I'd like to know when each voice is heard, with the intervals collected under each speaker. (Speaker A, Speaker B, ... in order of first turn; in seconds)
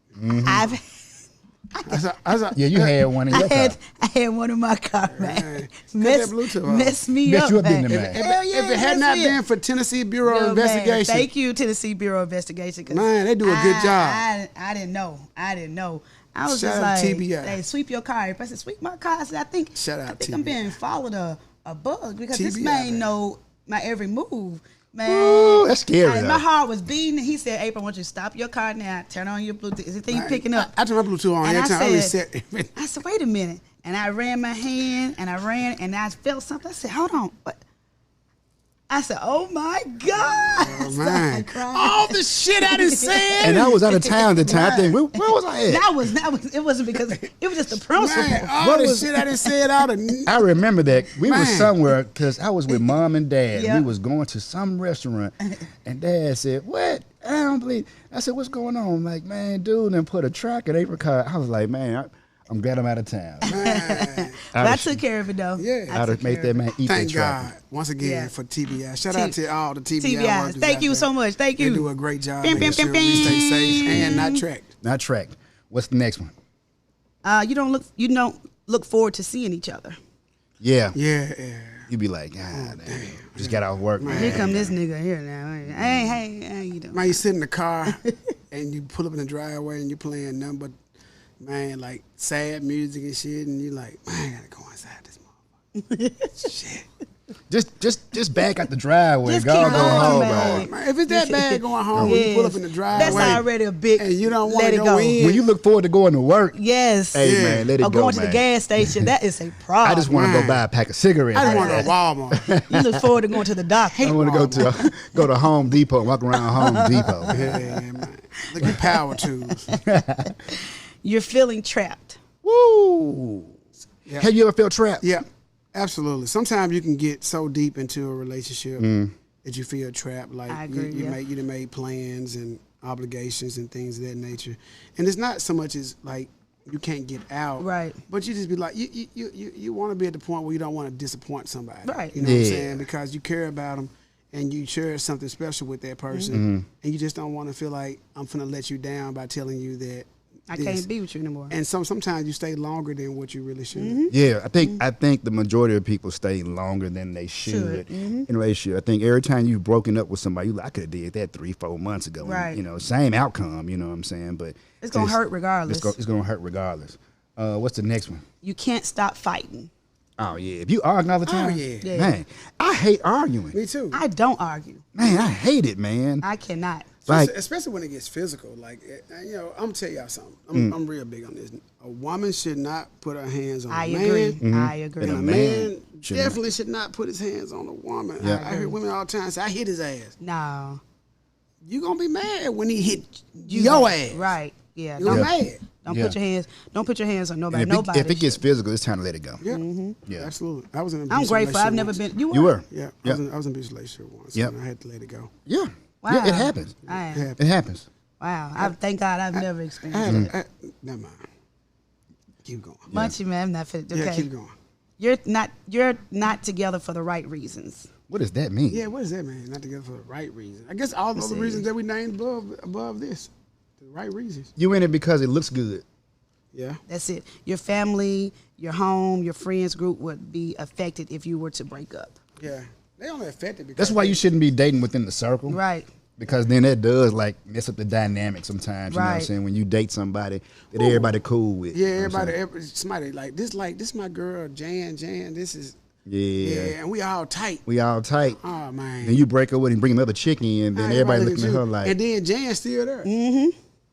Speaker A: 0.1-0.7, 2.5-3.8, 7.2-8.2, 25.0-26.4, 43.4-45.9, 48.6-49.1, 50.2-63.5, 64.5-65.0, 65.9-67.5, 72.5-72.8, 73.9-74.2, 74.8-76.3, 80.6-81.0, 81.9-84.8, 85.7-86.2, 97.5-100.7, 101.9-102.2, 102.9-103.4, 105.2-106.6, 107.1-109.1, 109.8-113.0, 114.0-117.6, 119.8-120.3, 122.4-123.5, 124.2-125.0, 128.8-129.1, 142.2-142.8, 146.3-146.7, 154.1-168.2, 170.2-173.5, 174.9-176.2, 177.1-177.3, 184.4-186.4, 188.2-188.4, 195.0-195.3, 195.9-196.2, 197.5-199.4, 202.3-203.2, 205.4-206.8, 207.4-207.8, 210.1-210.3, 218.1-218.9, 224.6-225.8, 233.8-235.6, 236.2-242.3, 246.1-246.8, 247.7-248.4, 249.0-251.9
Speaker B: 0.3-1.2, 1.7-2.0, 3.3-9.4, 10.2-30.7, 31.4-32.1, 32.8-37.6, 38.9-48.6, 53.5-53.9, 63.4-66.7, 68.0-68.3, 69.1-69.4, 70.0-71.9, 72.4-74.4, 77.2-80.0, 84.1-87.2, 87.9-88.2, 95.8-96.5, 99.2-105.2, 106.5-110.1, 111.3-111.9, 112.6-115.3, 116.3-117.7, 118.6-118.9, 119.7-122.2, 130.5-131.2, 137.6-138.0, 141.8-142.1, 146.1-146.4, 150.5-151.5, 153.7-154.8, 157.4-158.3, 162.2-162.6, 164.8-165.9, 168.4-169.7, 171.8-172.2, 173.9-174.8, 176.2-176.9, 183.7-185.4, 188.2-188.8, 190.2-190.8, 193.5-198.4, 199.5-200.0, 201.1-202.6, 206.0-207.3, 208.2-210.2, 212.9-214.3, 215.0-217.9, 221.2-221.7, 226.9-232.1, 235.5-235.9, 238.9-239.3, 253.0-253.6
Speaker C: 1.8-2.9, 5.1-7.0, 7.9-11.3, 12.9-14.2, 16.4-17.6, 19.8-20.8, 22.3-23.1, 30.1-32.7, 40.5-43.6, 47.9-50.4, 51.2-51.7, 63.5-64.4, 65.6-66.0, 66.8-74.7, 80.9-81.9, 82.5-84.6, 86.9-88.0, 88.5-90.7, 91.4-95.4, 96.4-96.9, 99.6-105.4, 107.2-107.7, 110.1-110.6, 111.3-112.5, 113.9-114.7, 117.3-119.7, 125.0-128.8, 129.4-150.9, 151.5-154.1, 171.2-171.9, 173.5-174.0, 177.1-184.4, 185.0-190.2, 191.6-194.3, 195.0-195.6, 199.4-202.0, 202.7-205.3, 206.8-207.4, 209.3-211.2, 212.4-212.9, 213.9-214.5, 218.7-224.5, 226.5-226.8, 232.4-234.2, 240.7-241.1, 241.7-245.8, 246.4-247.6, 248.4-249.2, 250.7-253.1